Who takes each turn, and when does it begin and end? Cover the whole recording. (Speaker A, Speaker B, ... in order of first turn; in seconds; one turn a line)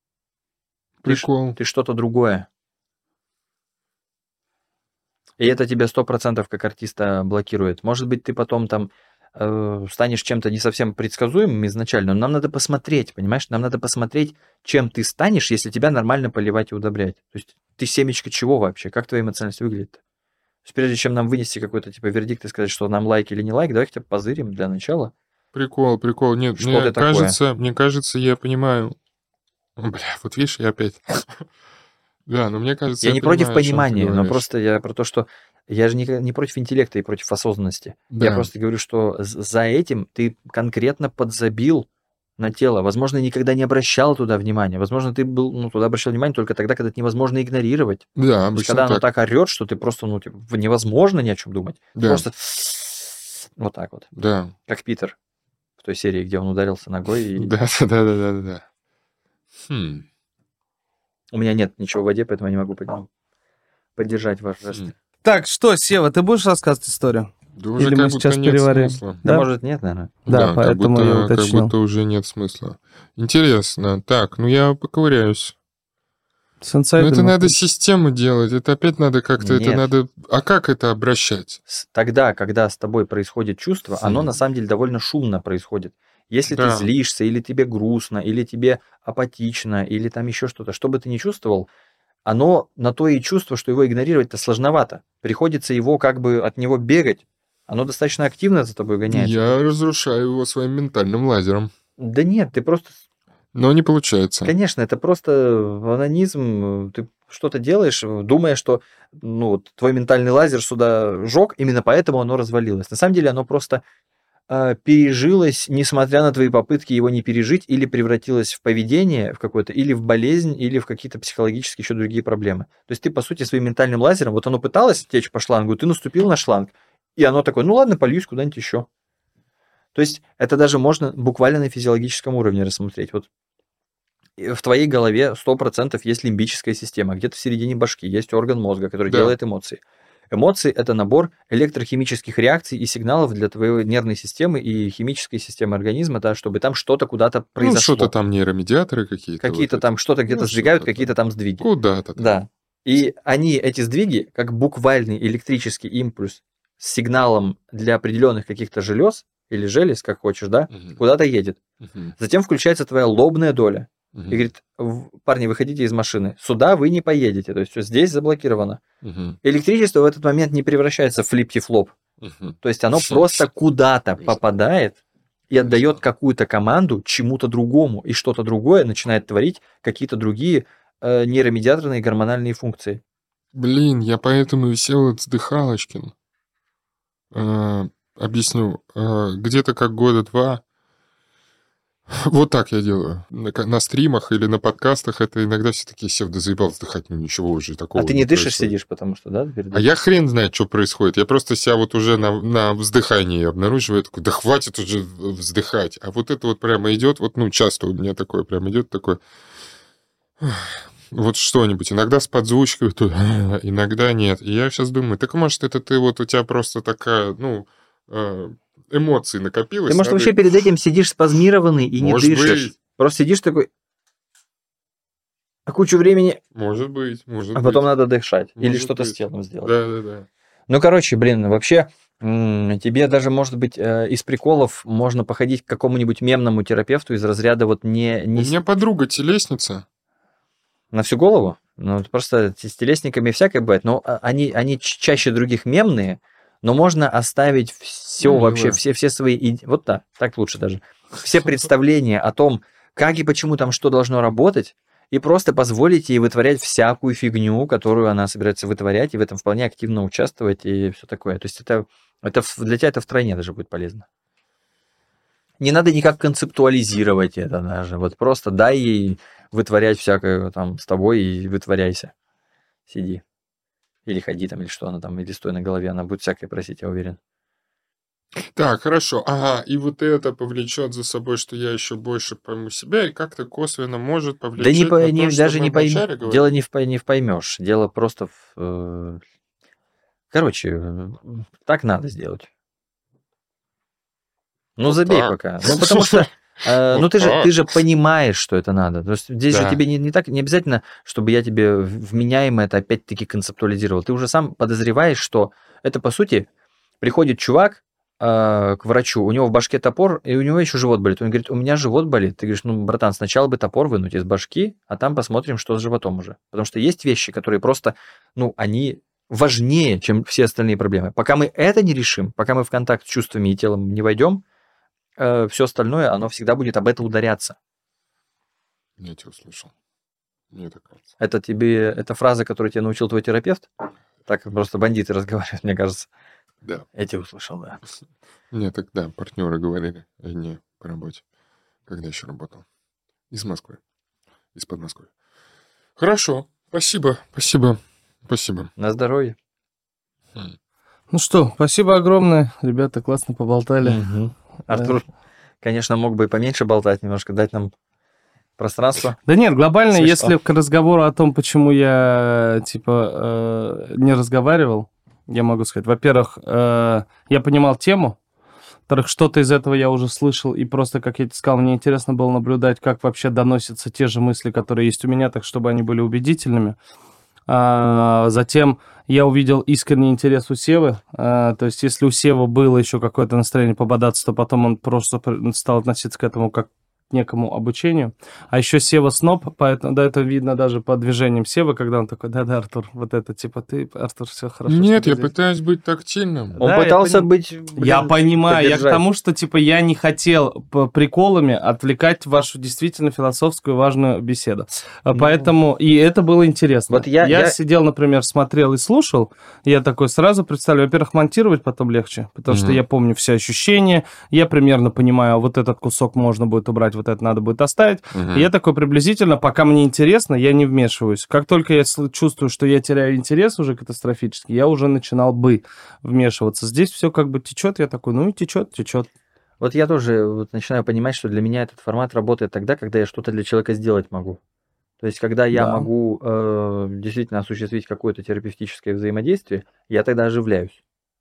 Speaker A: 1.0-1.6
Speaker B: 1.1-2.5
Speaker B: 5.4-20.0
Speaker B: 20.6-25.1
Speaker A: 25.5-29.0
Speaker B: 26.6-27.4
Speaker A: 29.8-31.5
Speaker A: 32.3-34.5
Speaker B: 33.0-41.9
Speaker A: 38.1-38.5
Speaker B: 42.4-54.1
Speaker A: 48.2-49.0
Speaker A: 51.9-52.3
Speaker A: 54.1-54.5
Speaker B: 54.6-55.2
Speaker B: 55.8-57.5
Speaker A: 57.4-58.6
Speaker A: 59.6-60.1
Speaker B: 61.3-63.1
Speaker B: 64.0-64.9
Speaker C: 65.2-69.5
Speaker A: 67.6-69.2
Speaker B: 69.2-70.2
Speaker C: 70.3-71.7
Speaker A: 70.3-75.6
Speaker C: 76.6-77.6
Speaker A: 77.0-81.6
Speaker B: 79.4-79.9
Speaker B: 81.7-91.7
Speaker A: 84.0-84.3
Speaker A: 86.5-86.9
Speaker B: 92.3-99.4
Speaker A: 99.1-101.7
Speaker B: 102.0-103.0
Speaker A: 103.5-104.5
Speaker B: 104.4-113.8
Speaker B: 114.5-128.9
Speaker B: 129.9-133.3
Speaker B: 134.4-148.1
Speaker A: 139.1-139.4
Speaker A: 147.6-152.3
Speaker B: 149.4-161.6
Speaker A: 160.7-161.0
Speaker A: 161.8-162.2
Speaker B: 162.2-168.8
Speaker A: 164.1-164.5
Speaker A: 169.0-169.4
Speaker B: 169.4-171.9
Speaker A: 172.2-173.5
Speaker B: 172.6-175.0
Speaker B: 175.5-183.0
Speaker A: 175.6-176.0
Speaker A: 183.5-186.1
Speaker A: 187.3-190.6
Speaker A: 192.1-198.7
Speaker B: 198.0-199.9
Speaker A: 199.7-209.2
Speaker A: 210.4-220.4
Speaker B: 219.9-223.7
Speaker A: 222.0-222.8
Speaker B: 225.7-226.4
Speaker A: 226.5-227.9
Speaker B: 227.6-229.7
Speaker A: 228.6-230.3
Speaker B: 230.7-238.6
Speaker A: 238.4-239.9
Speaker B: 240.9-264.1
Speaker A: 248.2-248.8
Speaker B: 265.6-272.1
Speaker B: 272.9-273.2
Speaker B: 274.1-277.2
Speaker A: 278.4-286.5
Speaker B: 284.6-289.2
Speaker B: 290.3-292.5
Speaker B: 294.8-306.5
Speaker A: 294.9-296.3
Speaker A: 296.9-297.5
Speaker A: 299.5-299.8
Speaker B: 307.0-324.4
Speaker B: 325.2-327.6
Speaker A: 329.0-329.7
Speaker A: 330.5-331.0
Speaker B: 331.2-333.7
Speaker B: 334.2-336.1
Speaker B: 336.9-337.8
Speaker A: 338.5-341.2
Speaker A: 341.9-342.6
Speaker A: 343.3-343.8
Speaker A: 344.6-345.1
Speaker A: 346.0-348.7
Speaker B: 348.8-349.4
Speaker C: 351.1-354.1
Speaker B: 353.8-355.1
Speaker C: 354.7-355.0
Speaker B: 355.6-357.7
Speaker B: 358.6-359.2
Speaker C: 359.3-368.2
Speaker B: 359.9-360.3
Speaker C: 368.9-376.8
Speaker C: 377.5-395.3
Speaker A: 394.7-396.6
Speaker B: 396.6-399.0
Speaker C: 396.6-429.1
Speaker B: 405.1-405.5
Speaker B: 406.9-407.6
Speaker A: 412.5-412.8
Speaker A: 418.1-418.5
Speaker B: 429.6-434.4
Speaker B: 435.0-440.8
Speaker C: 435.5-435.9